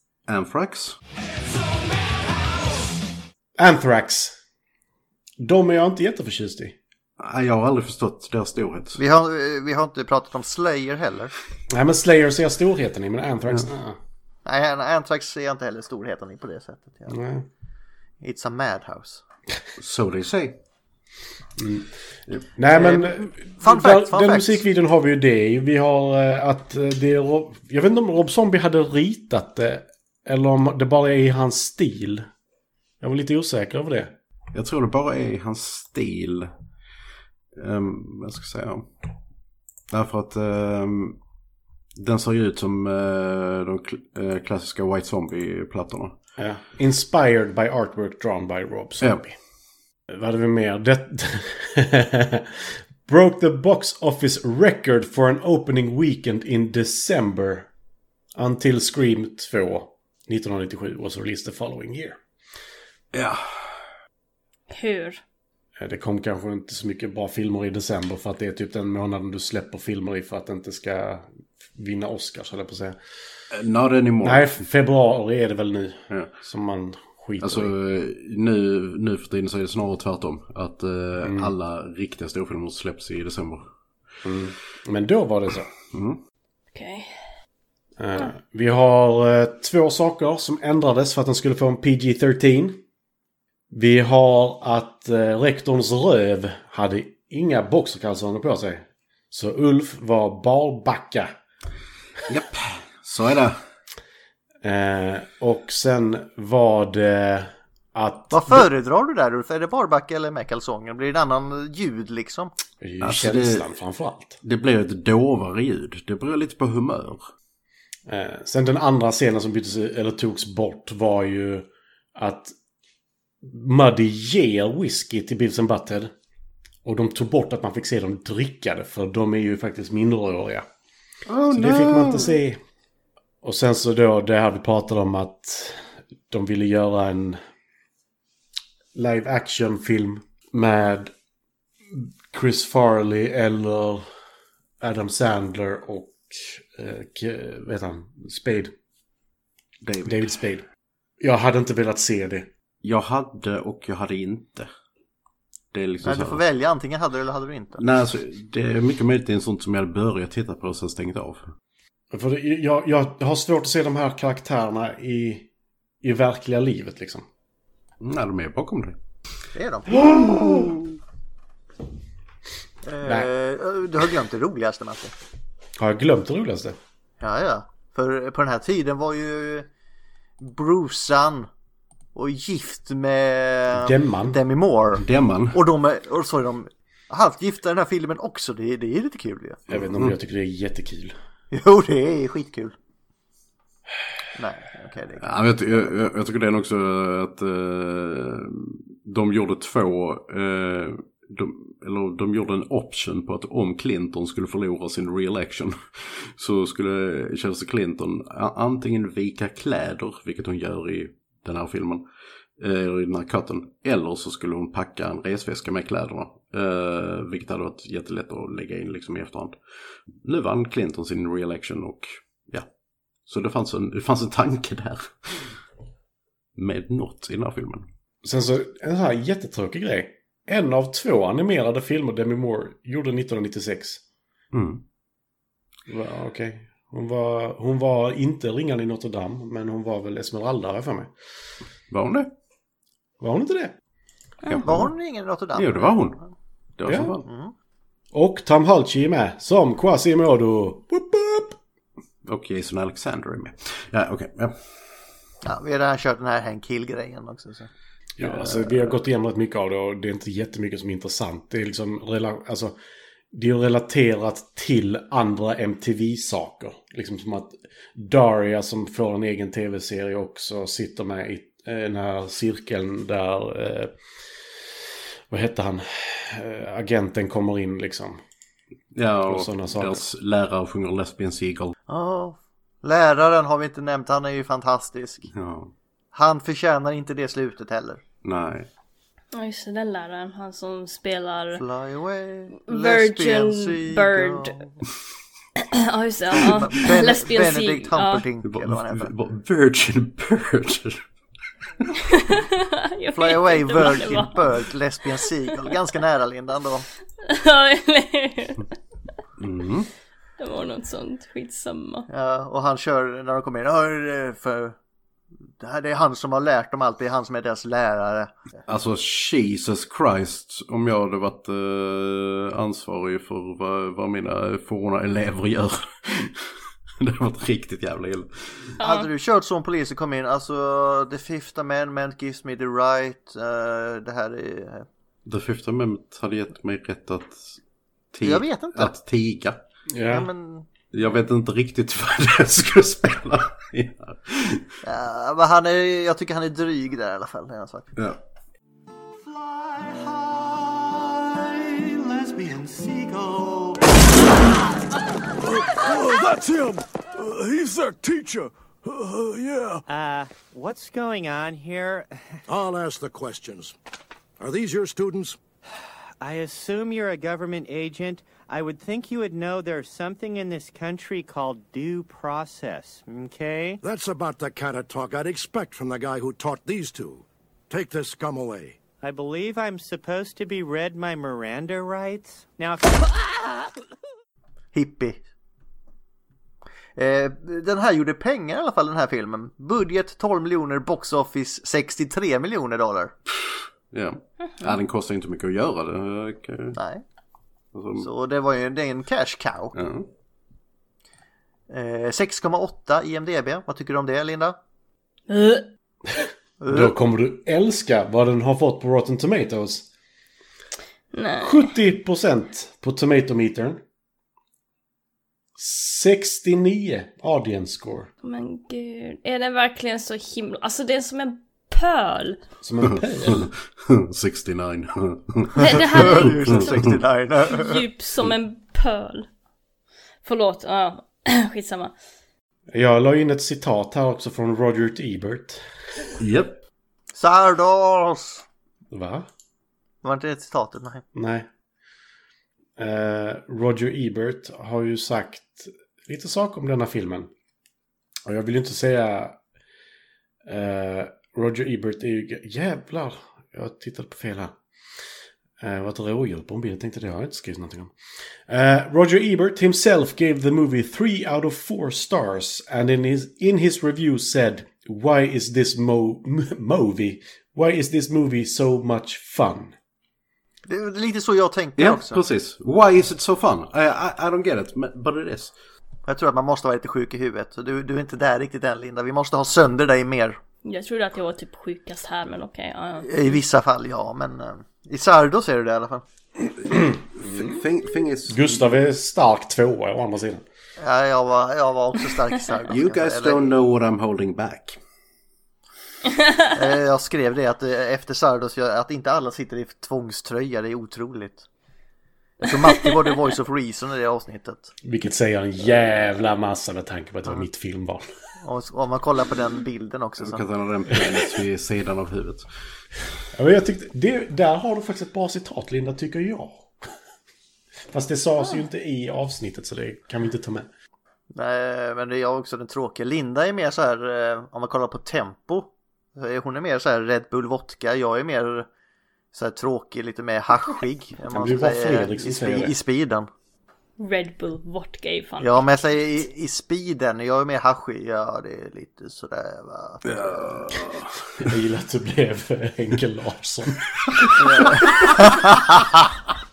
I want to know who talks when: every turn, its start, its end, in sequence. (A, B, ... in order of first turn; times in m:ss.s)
0:00.3-0:01.0 A
0:03.6-0:04.4 B
0:05.4-0:06.8 B
0:07.2-0:09.0 A
0:09.0-0:11.3 C
0:11.7-0:14.0 B
0:14.4-0:17.2 C
0:17.1-0:17.5 B
0:18.2-0:19.2 C
0:19.8-0:20.6 A
0:21.6-0:21.9 B
0:22.5-0:32.3 B
0:22.7-0:24.6 C
0:33.0-0:34.1 B
0:34.5-0:36.5 A
0:37.5-0:38.9 A
0:39.9-0:41.2 A
0:42.0-0:46.1 A
0:46.4-0:49.3 B
0:49.0-0:49.3 A
0:50.1-0:57.7 B
0:58.4-1:02.2 B
1:03.1-1:03.7 A
1:04.7-1:05.2 D
1:05.8-1:13.0 B
1:13.5-1:14.5 A
1:14.2-1:17.7 B
1:17.4-1:23.6 A
1:21.2-1:21.5 B
1:24.2-1:25.7 B
1:25.9-1:26.2 A
1:26.7-1:27.2 D
1:28.0-1:32.8 B
1:33.7-1:41.3 B
1:42.3-1:43.6 A
1:44.6-1:48.7 B
1:48.3-1:52.5 C
1:52.8-1:54.4 B
1:53.0-1:53.6 A
1:54.4-1:57.3 A
1:58.1-2:02.5 B
2:03.4-2:06.1 B
2:06.8-2:10.6 B
2:11.3-2:12.4 A
2:11.5-2:12.6 B
2:13.4-2:17.4 B
2:18.9-2:21.1 B
2:21.9-2:24.1 B
2:24.8-2:28.7 B
2:29.8-2:30.3 A
2:30.0-2:30.6 B
2:31.2-2:32.5 B
2:32.8-2:34.7 A
2:35.7-2:36.4 A
2:36.0-2:37.8 C
2:37.8-2:41.5 A
2:42.1-2:45.5 B
2:46.0-2:47.2 B
2:48.0-2:49.0 A
2:49.5-2:50.1 C
2:50.0-2:50.6 B
2:50.1-2:50.9 A
2:52.8-2:55.1 C
2:53.0-2:53.3 B
2:55.8-2:56.8 B
2:57.2-2:59.7 C
3:00.4-3:01.5 C
3:02.1-3:09.8 C
3:03.7-3:04.4 B
3:05.0-3:05.6 A
3:09.7-3:11.2 B
3:11.5-3:12.8 C
3:14.3-3:15.2 C
3:15.2-3:32.0 A
3:32.6-3:39.5 A
3:40.2-3:42.7 A
3:43.3-3:45.6 A
3:46.6-3:47.9 A
3:48.2-3:54.0 B
3:54.5-3:54.8 A
3:55.9-4:01.1 B
4:01.9-4:02.3 A
4:03.2-4:03.8 B
4:04.5-4:04.9 A
4:04.6-4:06.2 C
4:05.5-4:06.2 A
4:06.8-4:07.2 A
4:06.8-4:07.1 B
4:07.2-4:07.5 C
4:08.1-4:11.6 B
4:12.2-4:14.8 A
4:15.4-4:17.7 C
4:18.2-4:22.8 B
4:23.3-4:33.9 B
4:35.3-4:38.2 B
4:38.9-4:41.7 A
4:39.3-4:40.1 B
4:41.9-4:45.3 C
4:45.3-4:45.7 A
4:46.1-4:48.0 C
4:48.2-4:48.7 A
4:49.3-4:51.6 D
4:51.5-4:54.8 C
4:52.7-4:54.6 D
4:55.7-4:58.2 D
4:56.4-4:59.1 C
4:58.4-5:01.1 A
5:02.1-5:04.6 D
5:03.1-5:06.8 C
5:07.2-5:08.6 D
5:09.4-5:09.9 A
5:10.4-5:12.1 D
5:12.1-5:14.8 C
5:15.6-5:18.3 C
5:18.7-5:26.5 A
5:27.0-5:28.7 A
5:28.8-5:29.1 D
5:28.8-5:34.8 C
5:35.2-5:37.6 A
5:38.1-5:39.6 A
5:38.2-5:38.9 C
5:39.9-5:40.3 B
5:40.1-5:40.7 C
5:40.9-5:44.6 A
5:44.8-5:47.9 C
5:49.6-5:50.7 E
5:52.0-5:53.6 E
5:55.4-5:59.8 F
5:59.9-6:02.4 E
6:02.5-6:03.7 F
6:04.4-6:05.4 F
6:06.2-6:13.8 E
6:13.8-6:18.8 F
6:19.0-6:23.6 E
6:24.7-6:25.2 C
6:27.0-6:33.1 C
6:33.4-6:36.8 A
6:36.8-6:37.0 C
6:37.7-6:38.1 A
6:38.0-6:39.7 C
6:39.7-6:40.1 A
6:41.7-6:44.6 C
6:45.3-6:45.7 D
6:46.6-6:46.9 C
6:46.7-6:49.9 B
6:51.1-6:51.7 D
6:51.4-6:53.8 B
6:55.6-6:58.1 B
6:58.2-7:02.4 D
7:02.6-7:03.5 B
7:02.9-7:07.0 A
7:05.6-7:06.6 D
7:06.0-7:07.8 C
7:07.5-7:09.3 D
7:10.2-7:11.9 D
7:12.7-7:16.1 B
7:16.2-7:16.6 A
7:17.1-7:18.4 C
7:18.9-7:19.3 B
7:20.0-7:21.0 C
7:21.1-7:21.5 B
7:22.8-7:27.3 B
7:28.3-7:29.4 B
7:30.4-7:34.6 B
7:35.6-7:37.9 B
7:38.5-7:49.7 B
7:50.7-7:52.2 C
7:51.8-7:55.5 A
7:56.0-8:00.4 C
8:00.6-8:03.4 D
8:03.0-8:06.0 C
8:06.6-8:08.8 A
8:06.6-8:07.6 B
8:08.3-8:10.4 B
8:10.8-8:13.5 C
8:12.7-8:14.8 A
8:16.1-8:16.5 D
8:16.5-8:21.4 C
8:22.4-8:24.7 C
8:24.8-8:28.0 B
8:28.4-8:30.4 C
8:30.2-8:32.4 A
8:33.3-8:36.7 B
8:37.9-8:40.7 B
8:41.3-8:48.7 C
8:49.3-8:53.3 C
8:51.3-8:52.7 B
8:54.0-8:55.6 D
8:55.4-9:00.8 C
9:00.1-9:01.2 A
9:01.4-9:04.8 B
9:04.4-9:05.8 C
9:04.7-9:05.0 A